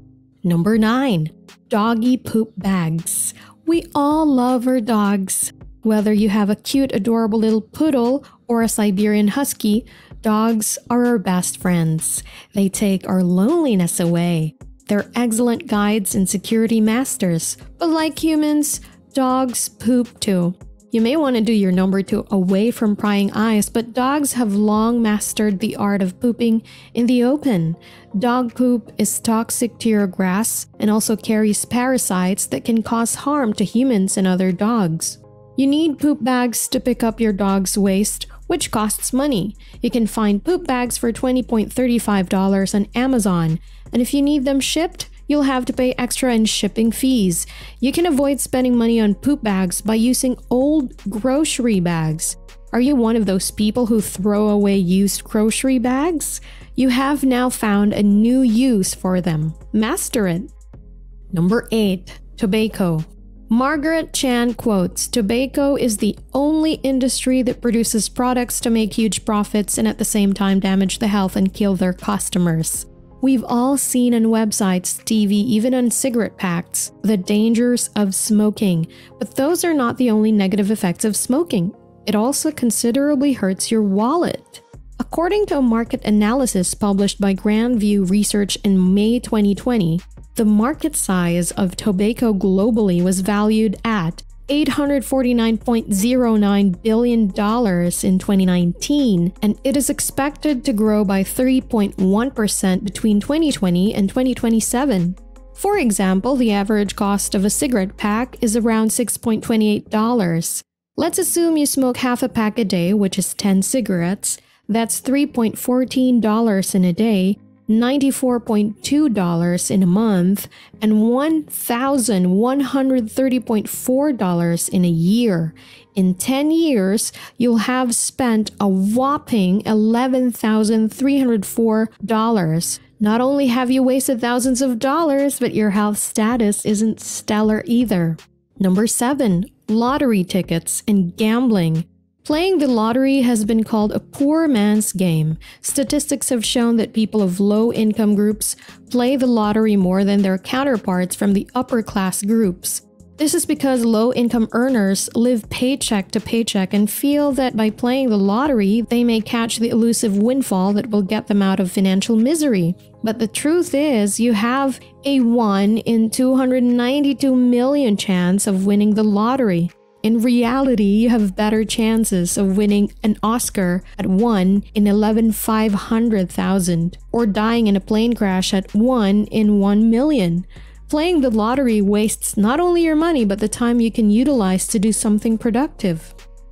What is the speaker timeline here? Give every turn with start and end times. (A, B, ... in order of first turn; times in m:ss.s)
0:00.4-1:00.5 A
1:01.3-3:06.1 A